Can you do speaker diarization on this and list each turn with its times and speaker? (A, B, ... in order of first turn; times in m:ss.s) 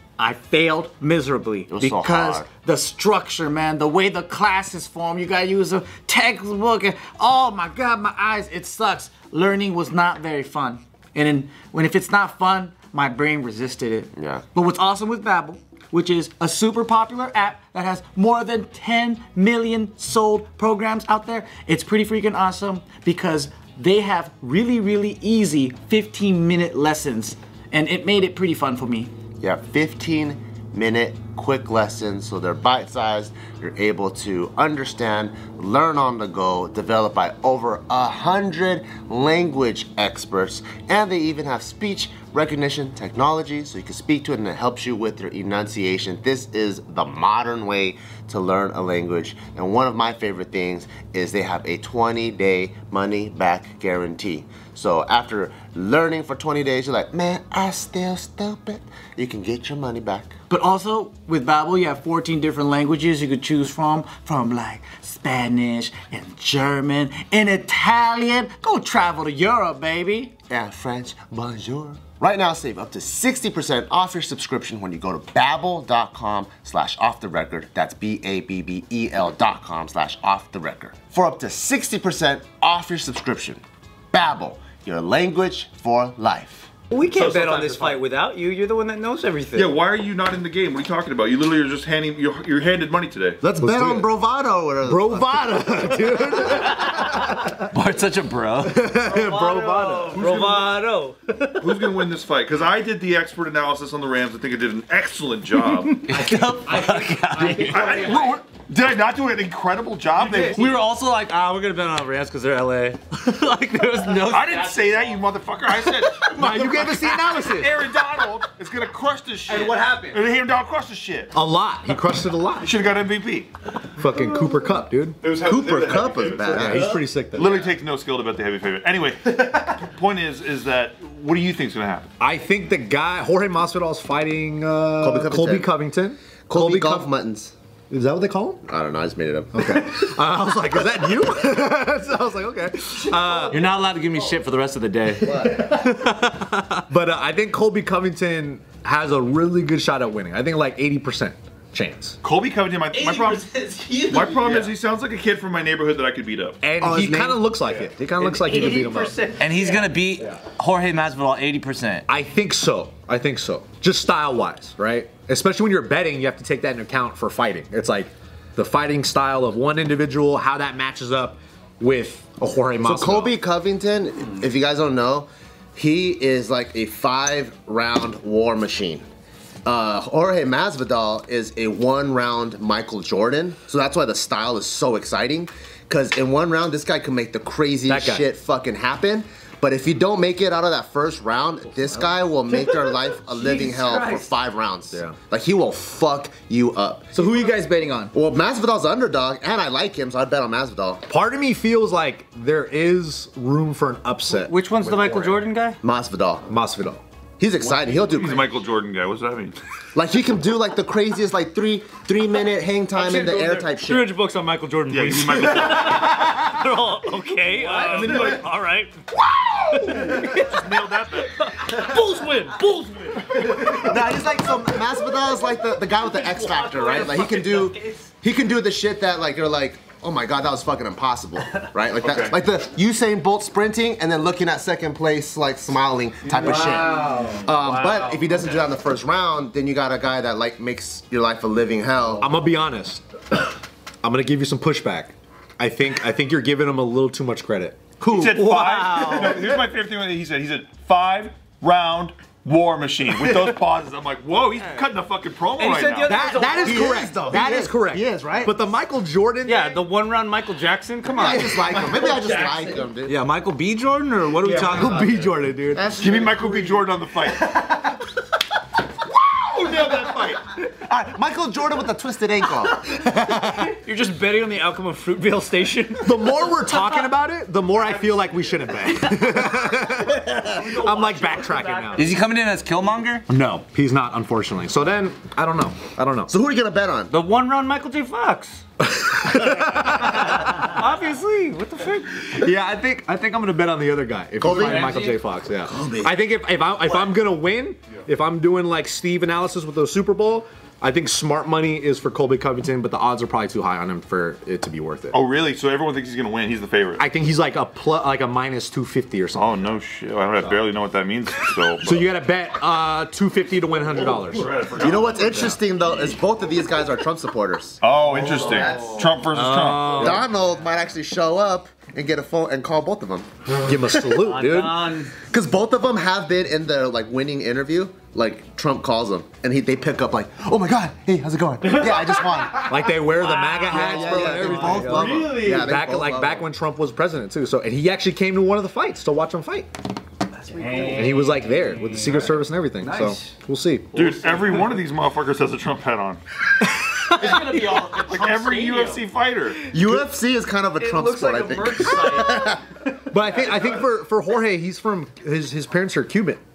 0:00.2-0:29.1 A
0:01.7-0:02.5 B
0:14.2-0:14.4 B
0:29.4-1:00.3 B
1:00.5-1:10.3 A
1:10.5-1:23.6 B
1:24.1-1:26.7 B
1:26.9-1:29.8 C
1:27.2-1:28.0 D
1:29.5-1:33.4 E
1:33.4-1:35.9 B
1:33.6-1:34.1 D
1:34.8-1:37.6 D
1:37.7-1:39.0 F
1:38.6-1:40.2 D
1:39.0-1:41.8 C
1:40.0-1:40.9 E
1:41.6-1:46.1 E
1:46.0-1:48.0 F
1:46.2-1:46.8 A
1:46.8-1:48.2 D
1:47.3-1:48.4 A
1:47.6-1:50.7 E
1:50.4-1:54.8 F
1:54.2-2:01.3 E
1:56.3-1:57.6 B
1:56.3-1:57.8 D
2:01.3-2:02.7 D
2:02.6-2:03.5 E
2:04.0-2:05.2 D
2:05.2-2:06.8 E
2:05.3-2:07.0 B
2:06.5-2:07.6 D
2:07.3-2:12.1 E
2:12.2-2:17.1 D
2:15.0-2:15.7 B
2:16.5-2:17.5 B
2:17.9-2:18.6 D
2:18.6-2:19.8 B
2:19.5-2:23.6 D
2:23.5-2:26.8 F
2:25.2-2:25.8 B
2:26.9-2:32.2 D
2:32.2-2:36.6 E
2:32.9-2:34.7 C
2:36.6-2:39.2 D
2:36.8-2:37.6 B
2:38.2-2:39.9 C
2:39.4-2:42.0 F
2:42.1-2:53.3 D
2:52.8-2:59.0 B
2:59.6-3:17.1 B
3:07.9-3:08.3 D
3:12.5-3:14.3 A
3:17.1-3:18.1 A
3:18.1-3:21.0 B
3:21.1-3:24.5 D
3:24.3-3:25.8 C
3:25.8-3:26.5 B
3:26.5-3:27.0 D
3:27.4-3:28.6 B
3:28.1-3:29.6 E
3:30.0-3:34.2 B
3:32.9-3:39.0 C
3:34.9-3:36.3 E
3:37.7-3:38.4 E
3:37.7-3:38.0 A
3:39.7-3:43.4 C
3:39.8-3:42.1 E
3:43.4-4:02.3 B
3:45.9-3:48.0 C
3:56.4-3:58.2 A
4:02.2-4:03.4 D
4:04.0-4:07.9 D
4:08.0-4:16.2 E
4:08.2-4:09.5 C
4:15.6-4:17.2 C
4:16.0-4:19.8 D
4:16.4-4:18.7 B
4:19.5-4:21.9 C
4:21.0-4:23.2 B
4:21.7-4:22.9 A
4:23.1-4:25.0 F
4:24.5-4:26.8 B
4:24.6-4:26.0 D
4:26.0-4:27.6 E
4:29.4-4:30.4 E
4:30.3-4:33.6 B
4:33.5-4:36.7 C
4:36.0-4:42.2 D
4:40.5-4:42.1 C
4:42.0-4:43.3 F
4:43.3-4:46.3 D
4:46.3-4:47.1 B
4:47.1-4:48.6 C
4:48.8-4:50.7 D
4:49.8-4:52.3 C
4:50.9-4:51.2 F
4:52.3-5:05.2 D
4:54.4-4:56.2 B
4:54.6-4:55.2 C
5:05.1-5:07.0 E
5:07.0-5:09.5 D
5:09.3-5:12.0 E
5:11.8-5:14.6 D
5:14.0-5:15.6 E
5:14.7-5:17.8 B
5:15.2-5:15.6 D
5:17.8-5:20.1 E
5:18.4-5:19.0 B
5:18.8-5:20.2 F
5:19.8-5:23.3 B
5:23.6-5:25.1 D
5:24.3-5:25.1 C
5:25.3-5:33.0 B
5:31.8-5:32.3 A
5:32.5-5:39.7 D
5:33.4-5:34.4 C
5:33.6-5:36.5 B
5:33.7-5:35.6 A
5:34.3-5:35.2 F
5:40.5-5:41.4 A
5:40.5-5:41.8 C
5:40.8-5:43.9 D
5:42.8-5:43.2 C
5:43.9-5:46.2 E
5:47.2-5:49.0 A
5:47.2-5:48.8 C
5:48.0-5:49.7 E
5:49.7-5:52.8 B
5:50.8-5:51.5 A
5:51.1-5:52.3 C
5:53.1-5:56.4 D